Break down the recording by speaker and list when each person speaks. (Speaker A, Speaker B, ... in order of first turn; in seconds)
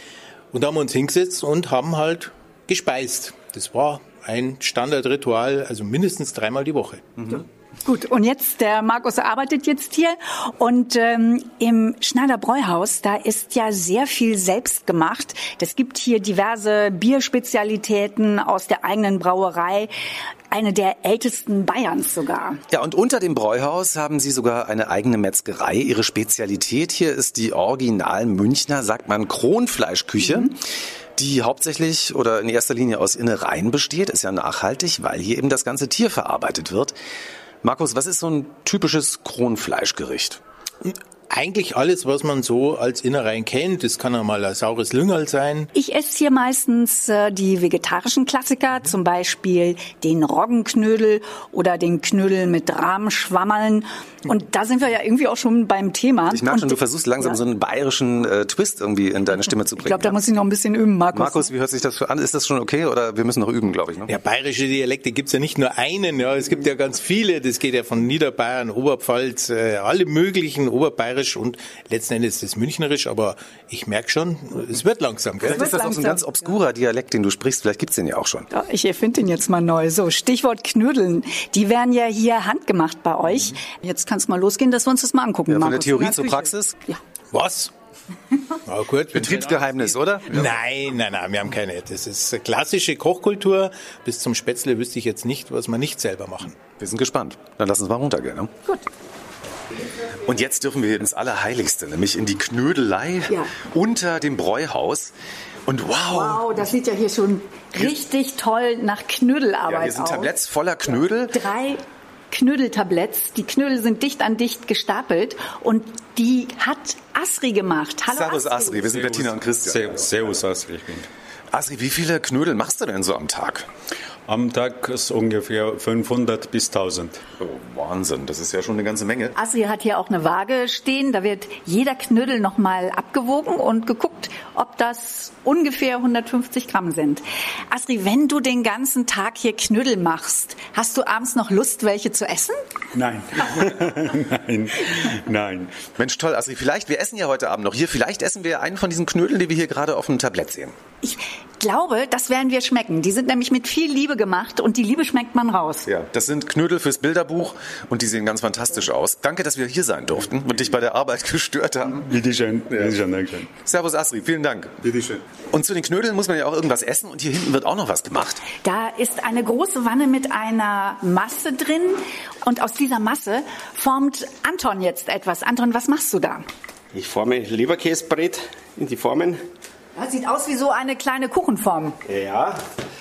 Speaker A: 0.5-7.0, 40.9-45.7, 64.1-75.7, 87.3-87.7, 88.7-96.6
Speaker B: 7.8-19.9, 20.5-22.6, 45.7-57.4, 59.8-61.5, 75.5-76.2, 78.5-87.0, 106.1-110.3, 111.3-118.8, 129.3-142.6, 151.0-155.9, 168.6-176.4, 180.0-182.0
Speaker C: 22.7-30.6, 31.2-37.0, 37.6-40.4, 56.3-60.2, 61.1-64.2, 75.4-78.5, 85.5-86.8, 89.1-90.5, 96.8-98.5, 100.2-105.1, 105.7-106.5, 109.7-111.4, 118.1-120.2, 121.5-123.7, 127.4-129.3, 146.0-150.8, 155.8-162.1, 162.7-163.0, 163.6-168.4
Speaker D: 118.9-121.1, 124.3-127.2, 142.9-145.8, 162.0-163.5
Speaker E: 176.9-179.4, 182.1-182.6